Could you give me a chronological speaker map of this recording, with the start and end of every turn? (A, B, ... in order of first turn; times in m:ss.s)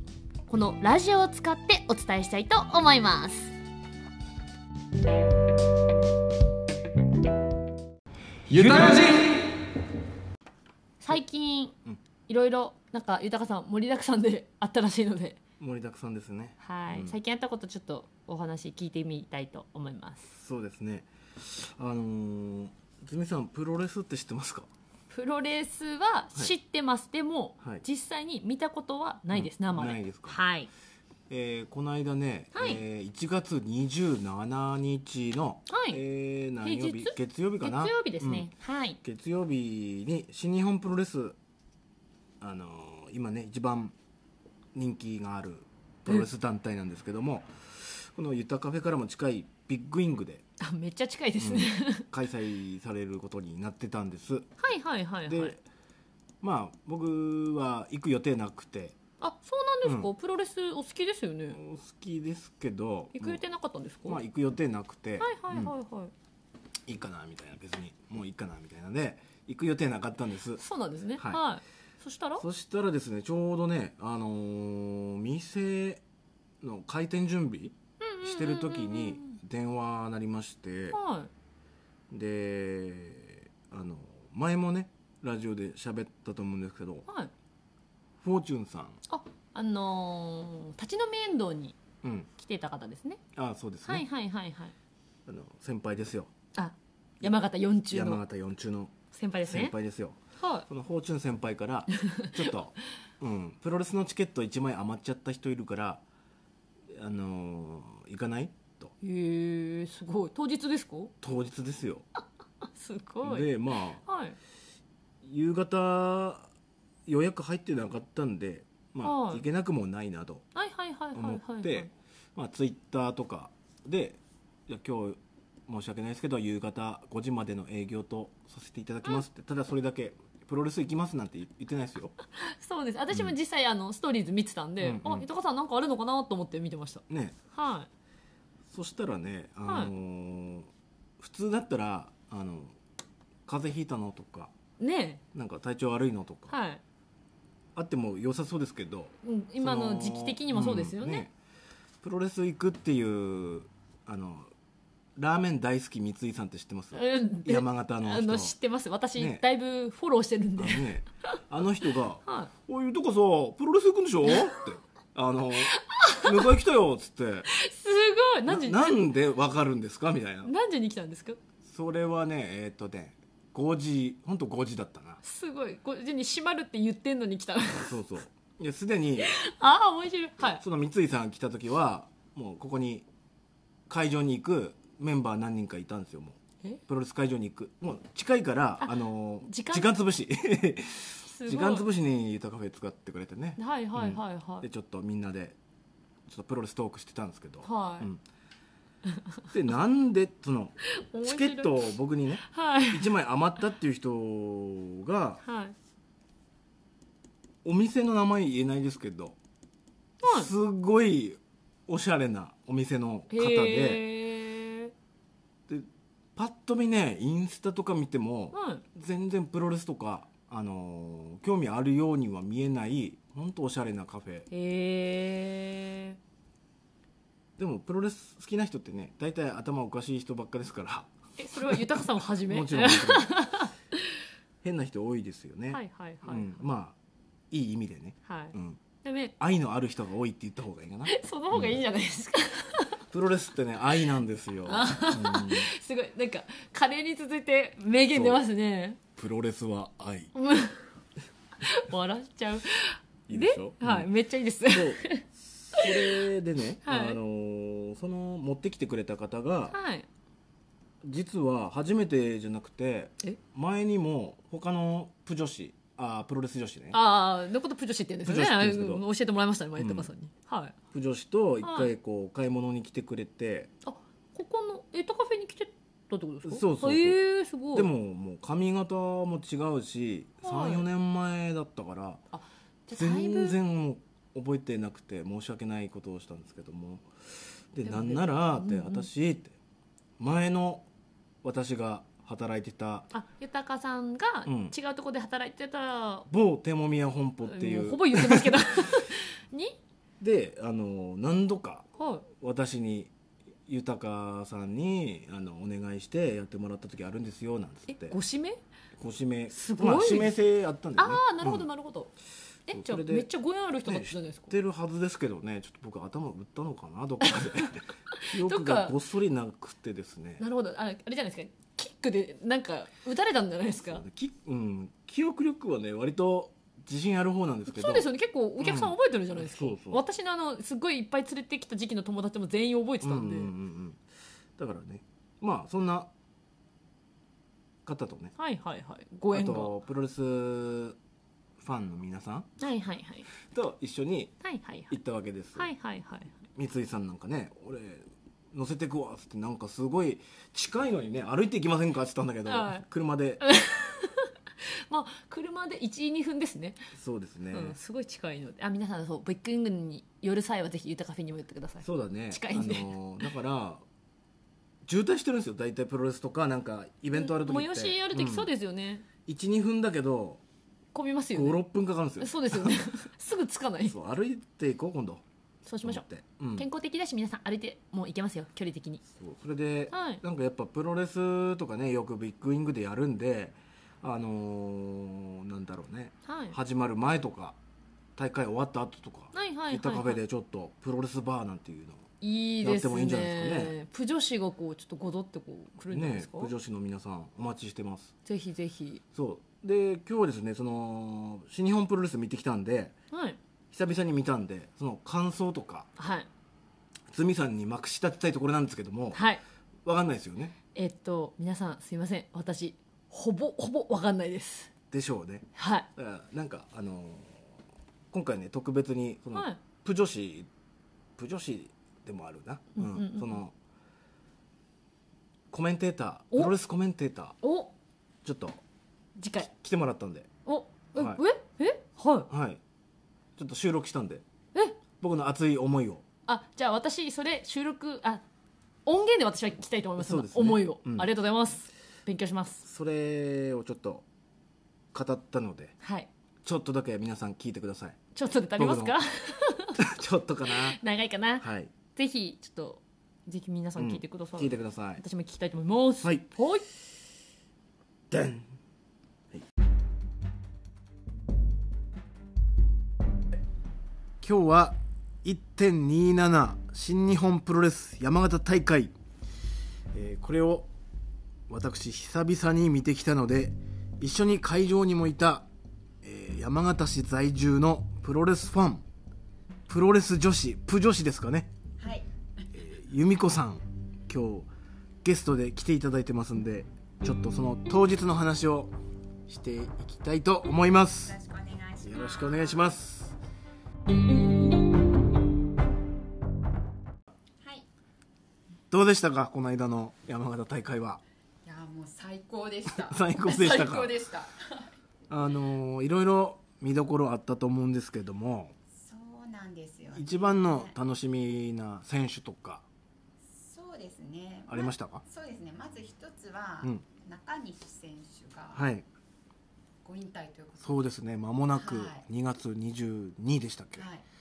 0:00.5-0:03.5 A
0:08.5-0:09.3 B
0:11.0-0:11.8 A
0:12.3-0:15.4 A
0:15.6-0:17.2 B
0:16.6-0:20.3 A
0:20.3-0:24.7 B
0:25.1-0:30.7 A
0:29.3-0:30.4 B
0:31.3-0:38.5 B
0:32.5-0:32.8 A
0:35.7-0:36.0 A
0:36.6-0:39.0 A
0:39.0-0:41.4 B
0:42.4-0:43.9 B
0:44.7-0:50.4 B
0:50.6-0:52.1 A
0:51.4-0:54.5 B
0:54.6-0:55.5 A
0:55.3-0:55.6 B
0:56.4-0:59.0 B
0:59.2-1:01.6 A
0:59.8-1:00.1 B
1:01.5-1:03.4 B
1:03.1-1:04.2 A
1:04.1-1:05.7 B
1:05.2-1:06.1 A
1:06.8-1:10.6 B
1:10.6-1:12.4 A
1:11.2-1:11.4 B
1:12.4-1:16.0 B
1:16.6-1:21.0 B
1:18.0-1:19.4 A
1:20.9-1:21.3 A
1:22.1-1:27.0 B
1:28.2-1:29.0 B
1:29.1-1:31.8 A
1:32.0-1:32.3 B
1:32.4-1:33.2 A
1:33.3-1:34.0 B
1:33.8-1:34.7 A
1:35.2-1:36.3 B
1:36.5-1:38.2 A
1:37.9-1:46.0 B
1:39.1-1:39.7 A
1:40.4-1:40.6 A
1:42.0-1:42.5 A
1:46.9-1:48.9 B
1:49.0-1:51.1 A
1:51.2-1:52.0 B
1:52.6-1:54.4 A
1:53.2-1:54.0 B
1:55.2-1:56.5 B
1:57.0-2:00.4 B
1:59.0-1:59.4 A
2:00.5-2:01.9 A
2:01.1-2:12.1 B
2:12.4-2:17.9 A
2:14.8-2:15.3 B
2:17.1-2:17.4 B
2:18.7-2:22.8 B
2:19.6-2:19.9 A
2:23.4-2:24.5 B
2:24.8-2:25.2 A
2:25.3-2:26.6 B
2:26.5-2:26.8 A
2:27.7-2:31.3 B
2:29.2-2:31.2 A
2:32.0-2:34.5 B
2:35.2-2:38.6 B
2:36.9-2:41.4 A
2:39.2-2:39.4 B
2:40.6-2:47.5 B
2:42.2-2:42.5 A
2:45.6-2:46.4 A
2:47.5-2:49.0 A
2:48.5-2:50.5 B
2:50.4-2:51.4 A
2:51.6-2:55.2 B
2:55.2-2:58.0 A
2:57.8-2:59.4 B
2:59.2-3:00.6 A
3:00.4-3:03.1 B
3:03.9-3:15.6 B
3:08.8-3:09.9 A
3:11.2-3:11.8 A
3:13.6-3:14.7 A
3:16.3-3:18.2 B
3:17.6-3:18.1 A
3:19.5-3:25.4 B
3:20.9-3:23.1 A
3:25.4-3:25.7 A
3:27.6-3:29.4 B
3:30.2-3:30.5 A
3:30.2-3:34.0 B
3:33.3-3:34.9 A
3:35.7-3:44.5 B
3:38.5-3:38.8 A
3:44.5-3:46.2 A
3:47.6-3:51.9 B
3:51.4-3:53.7 A
3:52.5-3:53.3 B
3:54.6-3:57.0 B
3:55.7-3:56.6 A
3:57.5-3:58.8 B
3:58.2-3:59.3 A
3:59.4-4:01.8 B
4:01.0-4:03.0 A
4:03.1-4:05.7 B
4:04.6-4:09.0 A
4:08.1-4:08.4 B
4:09.2-4:10.3 B
4:10.3-4:10.8 A
4:11.6-4:16.3 A
4:13.3-4:14.1 B
4:14.7-4:19.8 B
4:16.8-4:17.2 A
4:19.7-4:20.0 A
4:21.0-4:27.0 B
4:26.9-4:30.7 A
4:28.2-4:29.0 B
4:29.8-4:30.1 B
4:30.9-4:33.7 B
4:31.6-4:31.9 A
4:33.8-4:37.9 A
4:36.4-4:37.2 B
4:37.7-4:42.2 B
4:40.4-4:40.8 A
4:42.3-4:43.6 A
4:42.9-4:49.6 B
4:47.8-4:49.1 A
4:50.2-4:50.9 B
4:51.4-4:53.1 B
4:53.1-4:56.3 A
4:54.4-4:54.7 B
4:56.3-4:58.9 B
4:57.4-4:59.8 A
5:00.2-5:03.1 B
5:02.0-5:02.3 A
5:03.7-5:08.2 B
5:07.9-5:08.6 A
5:09.0-5:11.6 B
5:09.5-5:10.4 A
5:11.0-5:12.1 A
5:12.7-5:14.5 A
5:12.7-5:13.3 B
5:13.8-5:20.4 B
5:17.3-5:19.0 A
5:20.4-5:24.0 A
5:23.8-5:28.1 B
5:27.7-5:33.5 A
5:28.6-5:30.0 B
5:33.0-5:34.0 B
5:34.6-5:36.1 B
5:37.8-5:38.3 B
5:38.4-5:39.8 A
5:39.3-5:41.0 B
5:41.6-5:42.5 B
5:42.6-5:43.3 A
5:43.4-5:44.3 B
5:44.4-5:45.0 A
5:44.9-5:45.7 B
5:45.6-5:46.4 A
5:46.5-5:53.4 B
5:52.4-5:52.8 A
5:53.4-5:56.9 A
5:56.9-5:57.8 B
5:57.5-6:03.3 A
6:01.8-6:03.8 B
6:04.8-6:08.5 B
6:07.1-6:09.0 A
6:09.2-6:10.4 B
6:10.9-6:11.6 A
6:11.3-6:12.8 B
6:12.2-6:14.0 A
6:13.9-6:15.2 B
6:15.6-6:19.0 A
6:15.8-6:16.7 B
6:19.2-6:27.6 B
6:19.9-6:20.2 A
6:26.2-6:26.6 A
6:28.2-6:32.0 B
6:29.3-6:30.2 A
6:32.2-6:36.5 A
6:32.6-6:33.7 B
6:35.9-6:38.1 B
6:38.2-6:39.0 A
6:39.1-6:43.0 B
6:43.1-6:43.4 A
6:43.7-6:45.9 B
6:46.0-6:46.3 A
6:47.1-6:49.2 B
6:49.1-6:49.4 A
6:49.8-6:50.6 B
6:50.7-6:54.7 A
6:54.9-6:57.5 B
6:55.5-6:55.9 A
6:58.1-7:00.5 B
6:59.3-6:59.6 A
7:01.2-7:03.5 B
7:02.8-7:03.4 A
7:05.5-7:07.4 B
7:07.4-7:07.7 A
7:08.2-7:08.6 B
7:09.2-7:09.5 A
7:09.4-7:10.3 B
7:10.4-7:12.3 A
7:11.0-7:11.2 B
7:12.3-7:12.6 B
7:13.4-7:14.2 B
7:15.0-7:16.0 B
7:16.3-7:18.2 A
7:18.8-7:22.6 A
7:20.0-7:21.1 B
7:22.6-7:24.0 B
7:24.9-7:25.7 B
7:25.8-7:26.1 A
7:26.4-7:28.0 B
7:28.1-7:29.9 A
7:28.6-7:29.0 B
7:29.8-7:30.8 B
7:30.5-7:36.6 A
7:31.4-7:31.7 B
7:33.8-7:35.0 B
7:38.1-7:38.5 B
7:44.2-7:48.9 B
7:49.9-7:50.7 B
7:51.5-7:55.5 B
7:56.0-7:58.8 B
7:59.7-8:01.5 B
8:01.8-8:02.5 C
8:02.5-8:04.5 B
8:05.0-8:08.7 B
8:09.3-8:11.2 B
8:11.0-8:12.8 C
8:11.8-8:13.2 B
8:17.4-8:17.7 C
8:18.7-8:21.0 B
8:21.4-8:24.7 C
8:22.7-8:23.9 B
8:25.1-8:28.5 B
8:28.7-8:30.8 C
8:29.9-8:32.6 B
8:33.3-8:38.7 C
8:34.5-8:35.0 B
8:38.5-8:38.8 B
8:39.8-8:40.9 C
8:40.6-8:43.8 B
8:41.5-8:42.0 C
8:43.8-8:44.0 C